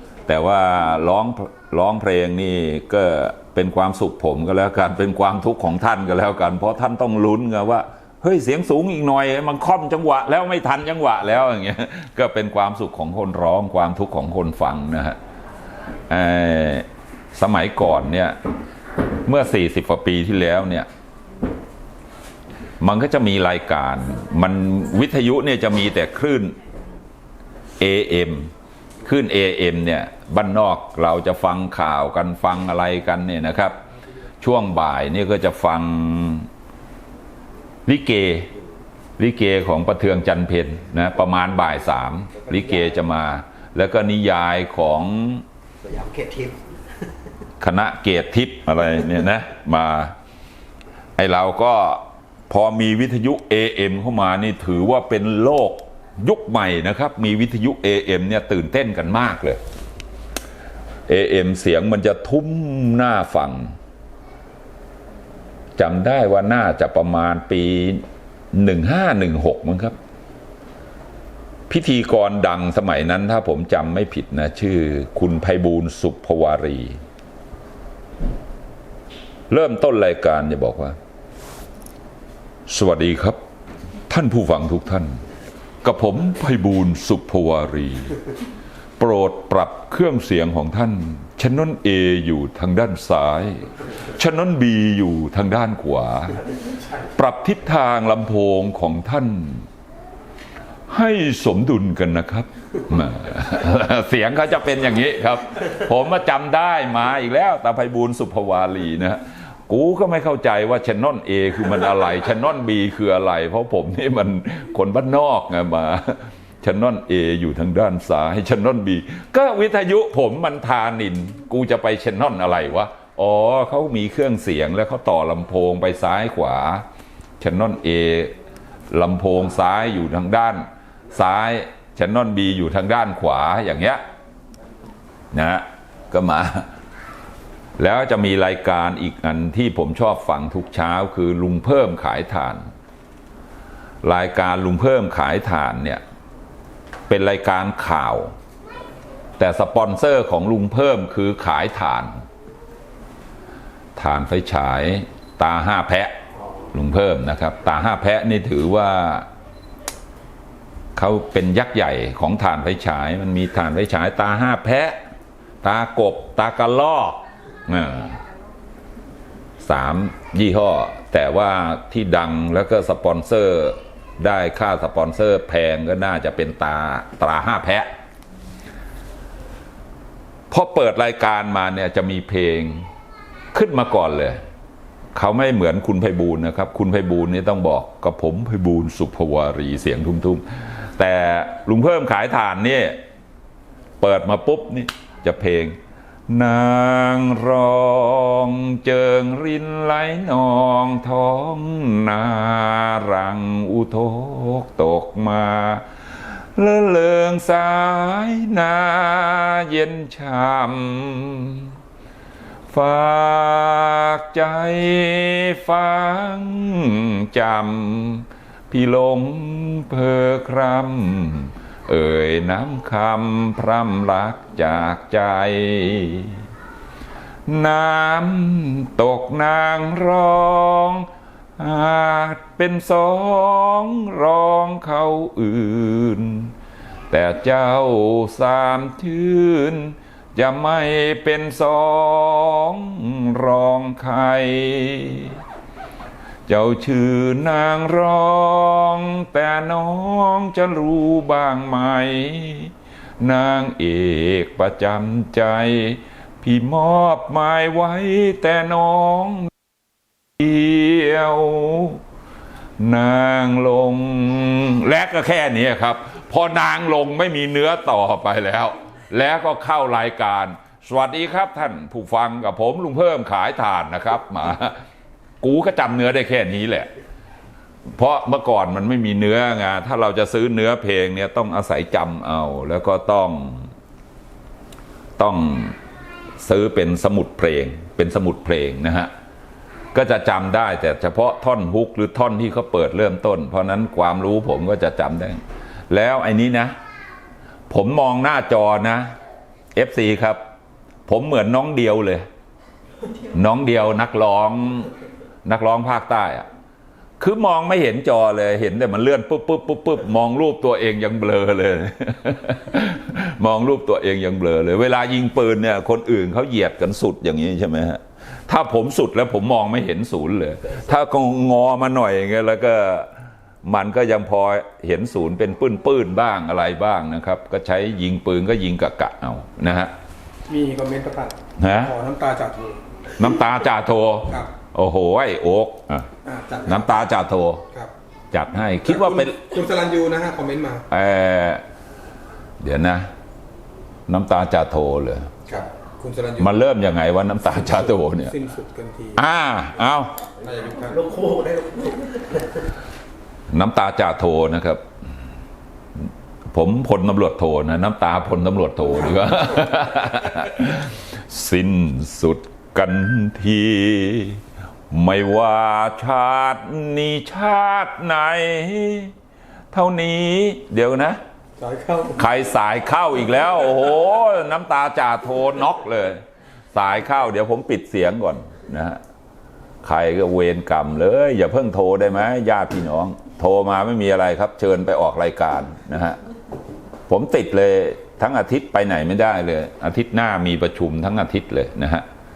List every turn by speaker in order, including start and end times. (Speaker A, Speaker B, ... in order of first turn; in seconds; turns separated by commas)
Speaker A: 0.3-15.2, Speaker A: 16.1-18.4, Speaker A: 19.3-20.9, Speaker A: 22.8-26.6, Speaker A: 27.8-28.5, Speaker A: 29.0-33.8, Speaker A: 34.4-36.5, Speaker A: 37.9-38.5, Speaker A: 39.2-45.5, Speaker B: 42.4-43.0, Speaker B: 45.8-46.6, Speaker A: 47.6-50.1, Speaker A: 51.2-59.6, Speaker A: 61.1-63.8, Speaker A: 65.8-70.0, Speaker A: 71.7-77.0, Speaker A: 79.5-81.0, Speaker A: 82.7-83.4, Speaker A: 84.1-85.2, Speaker A: 85.8-88.2, Speaker A: 89.0-96.4, Speaker A: 97.2-99.7, Speaker A: 100.9-126.8, Speaker A: 127.4-128.3, Speaker A: 128.9-134.0, Speaker A: 135.3-136.7, Speaker A: 137.8-142.7, Speaker A: 144.0-146.0, Speaker A: 147.1-148.3, Speaker A: 149.4-152.2, Speaker A: 154.0-156.2, Speaker A: 156.7-159.3, Speaker A: 161.0-165.0, Speaker A: 165.6-168.2, Speaker A: 169.6-177.9, Speaker A: 180.5-182.9, Speaker A: 183.5-184.4, Speaker A: 185.2-193.0, Speaker A: 194.0-205.9, Speaker A: 206.6-211.7, Speaker A: 212.7-226.4, Speaker A: 227.5-236.5, Speaker A: 237.1-245.4, Speaker A: 246.5-259.5, Speaker A: 260.4-262.0, Speaker A: 262.8-274.8, Speaker A: 275.4-276.9, Speaker A: 277.9-283.7, Speaker A: 285.2-285.8, Speaker A: 286.4-289.1, Speaker A: 289.9-296.7, Speaker A: 297.7-299.1, Speaker A: 299.8-300.4, Speaker A: 301.1-302.3, Speaker A: 303.3-304.9, Speaker A: 305.4-306.5, Speaker A: 307.2-323.1, Speaker A: 323.6-329.9, Speaker C: 330.5-332.8, Speaker A: 331.6-331.9, Speaker A: 333.2-336.1, Speaker C: 336.2-337.1, Speaker A: 336.7-337.6, Speaker A: 338.3-339.4, Speaker C: 338.9-340.9, Speaker A: 340.9-341.6, Speaker A: 342.6-343.1, Speaker A: 344.1-345.3, Speaker C: 345.5-346.6, Speaker A: 346.4-348.3, Speaker C: 347.6-349.2, Speaker A: 349.2-350.1, Speaker C: 350.4-351.0, Speaker B: 350.8-352.6, Speaker A: 353.5-354.8, Speaker A: 356.5-369.1, Speaker A: 369.7-371.2, Speaker C: 371.6-372.2, Speaker A: 372.2-379.0, Speaker A: 379.8-386.2, Speaker A: 387.1-392.1